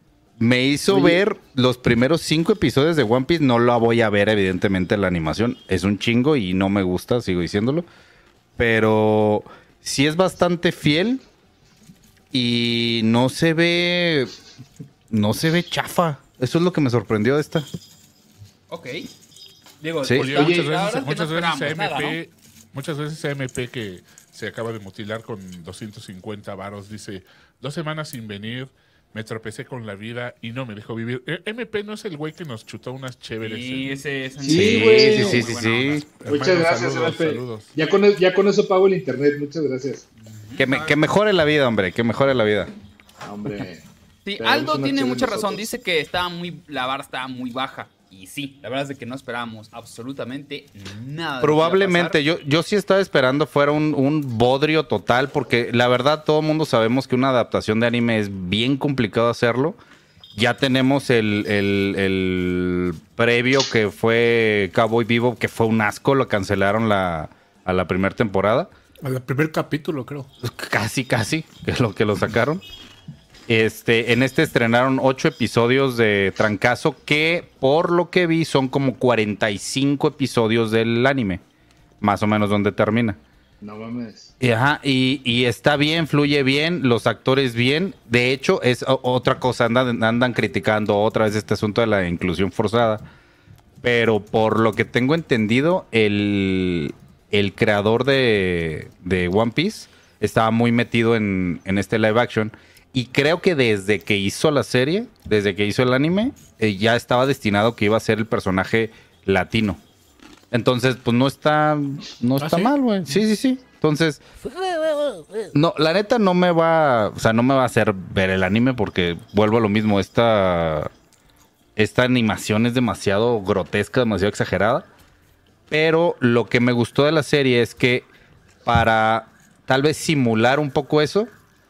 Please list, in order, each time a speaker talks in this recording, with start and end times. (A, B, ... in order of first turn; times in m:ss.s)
0:00.4-0:07.8 A
0:00.9-0:01.2 B
0:08.6-0:11.2 A
0:12.3-0:14.3 A
0:15.1-0:17.7 A
0:18.7-0:19.1 C
0:19.8-0:22.2 C
0:20.0-0:20.3 A
0:20.1-0:34.0 D
0:20.3-0:20.6 B
0:33.4-0:36.0 C
0:34.4-0:35.4 B
0:34.4-0:36.1 A
0:36.1-0:37.7 D
0:36.2-0:40.0 B
0:40.2-0:41.0 C
0:40.6-0:42.7 A
0:43.2-0:43.8 B
0:44.2-0:52.2 C
0:44.4-0:45.7 B
0:51.4-0:59.8 A
1:00.3-1:08.7 A
1:09.0-1:10.3 E
1:10.4-1:12.6 A
1:13.5-1:21.4 A
1:22.0-1:23.2 A
1:23.6-1:24.3 B
1:24.4-1:33.0 A
1:33.8-1:49.8 A
1:50.5-1:54.2 A
1:52.4-1:52.7 E
1:54.9-1:55.1 E
1:55.5-2:00.9 A
2:01.8-2:04.8 A
2:05.7-2:08.1 A
2:08.6-2:11.3 A